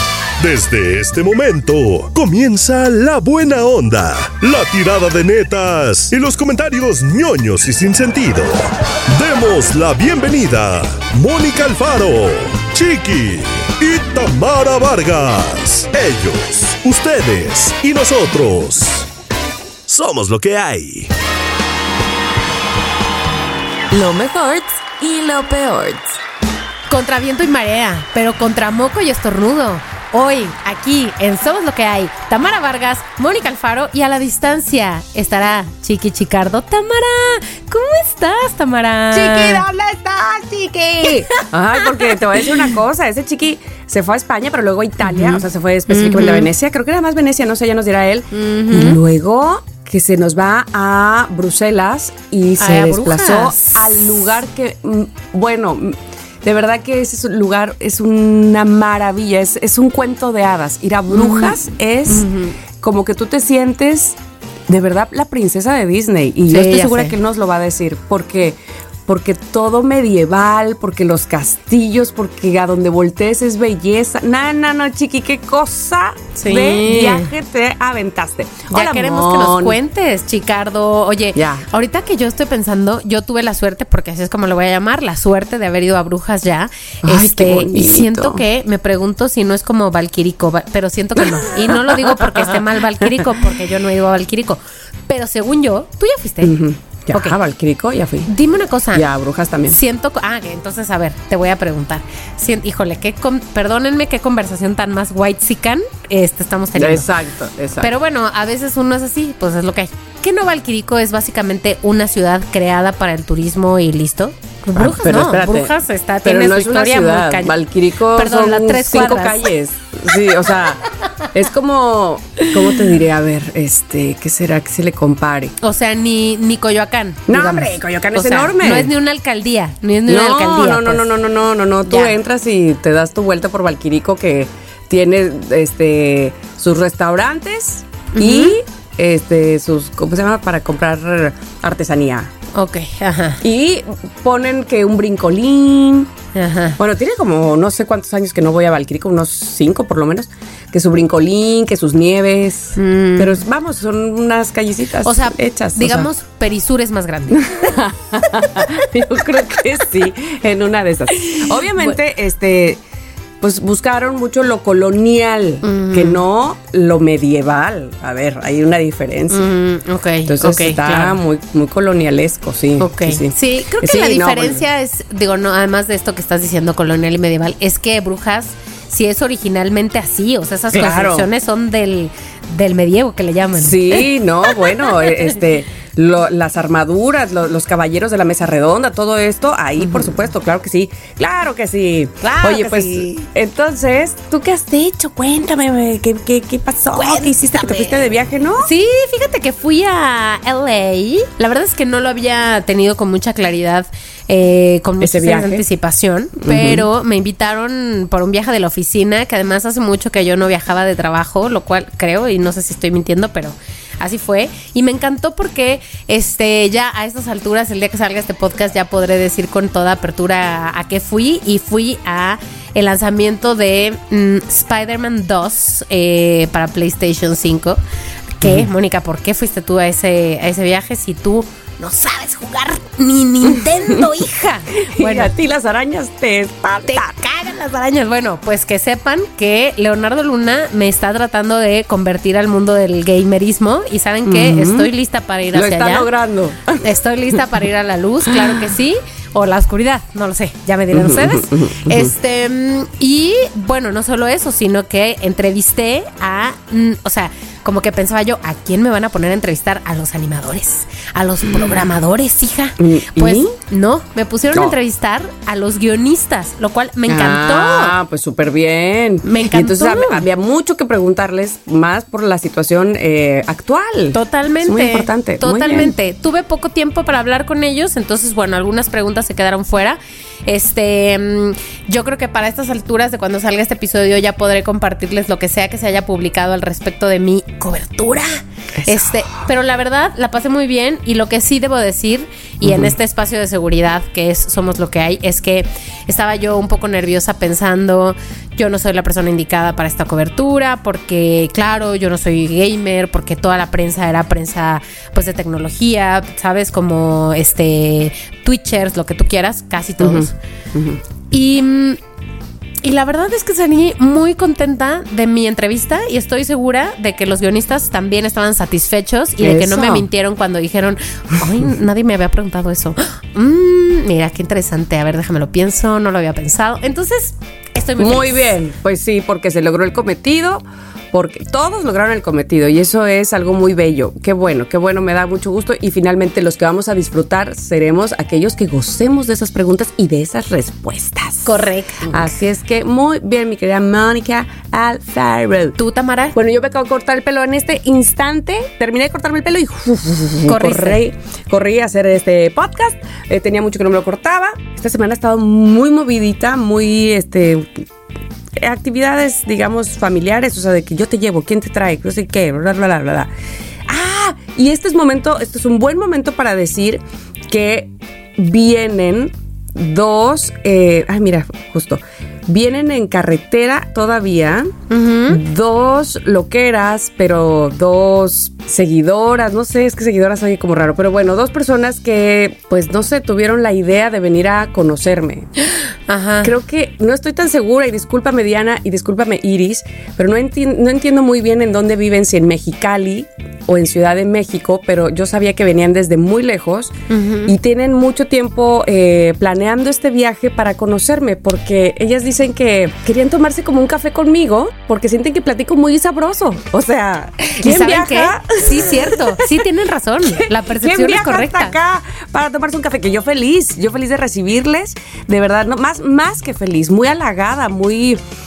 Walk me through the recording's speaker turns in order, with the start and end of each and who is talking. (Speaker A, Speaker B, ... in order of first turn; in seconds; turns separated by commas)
Speaker A: 0.4-19.1, Speaker A: 19.9-21.1, Speaker B: 23.9-26.0, Speaker C: 26.9-39.6, Speaker B: 39.1-62.2, Speaker C: 41.1-42.2, Speaker C: 45.0-46.5, Speaker C: 48.3-49.0, Speaker C: 52.6-54.0, Speaker C: 61.1-62.6, Speaker B: 62.8-64.2, Speaker B: 64.7-79.8, Speaker C: 66.5-67.2, Speaker C: 76.3-77.3, Speaker C: 78.7-96.5, Speaker B: 81.3-81.7, Speaker B: 87.0-88.4, Speaker B: 91.2-93.1, Speaker B: 96.4-98.3, Speaker C: 98.2-99.1, Speaker B: 98.9-99.8, Speaker C: 99.7-107.1, Speaker B: 106.8-107.9, Speaker C: 107.8-117.6, Speaker B: 114.7-120.8, Speaker C: 118.1-119.5, Speaker B: 121.3-125.5, Speaker C: 125.6-131.1, Speaker B: 127.3-128.9, Speaker B: 130.1-142.3, Speaker C: 131.9-132.1, Speaker C: 138.1-138.6, Speaker C: 142.5-143.4, Speaker B: 143.4-146.1, Speaker C: 146.3-146.8, Speaker B: 146.8-156.1, Speaker C: 152.8-153.4, Speaker C: 155.0-157.7, Speaker B: 157.3-162.8, Speaker C: 161.2-162.0, Speaker B: 163.4-169.4, Speaker C: 165.6-166.2, Speaker C: 169.3-171.2, Speaker B: 170.3-174.6, Speaker C: 172.8-185.3, Speaker B: 180.7-181.3, Speaker B: 183.6-198.7, Speaker C: 189.8-190.1, Speaker C: 192.2-193.2, Speaker C: 196.9-198.0, Speaker C: 198.6-227.8, Speaker B: 205.0-205.6, Speaker B: 206.4-206.8, Speaker C: 228.3-235.3, Speaker B: 228.4-228.7, Speaker B: 234.8-237.2, Speaker C: 236.9-246.1, Speaker B: 244.2-244.9, Speaker B: 245.5-246.8, Speaker C: 246.8-268.0, Speaker B: 250.9-252.1, Speaker B: 261.5-261.8, Speaker B: 262.8-263.6, Speaker B: 267.1-276.0, Speaker C: 269.2-270.2, Speaker C: 274.1-310.3, Speaker B: 288.8-289.1, Speaker B: 292.6-292.9, Speaker B: 310.0-311.0, Speaker C: 311.3-312.0, Speaker C: 312.8-328.5, Speaker B: 319.4-320.1, Speaker B: 328.0-345.8, Speaker C: 341.4-342.4, Speaker C: 345.8-346.4, Speaker B: 346.3-357.9, Speaker C: 350.5-351.0, Speaker B: 358.6-363.3, Speaker B: 363.9-374.7, Speaker C: 374.9-375.4, Speaker B: 375.3-385.5, Speaker C: 386.1-386.5, Speaker B: 386.4-396.9, Speaker C: 397.1-397.5, Speaker B: 397.4-409.6, Speaker C: 407.4-411.8, Speaker B: 410.3-418.2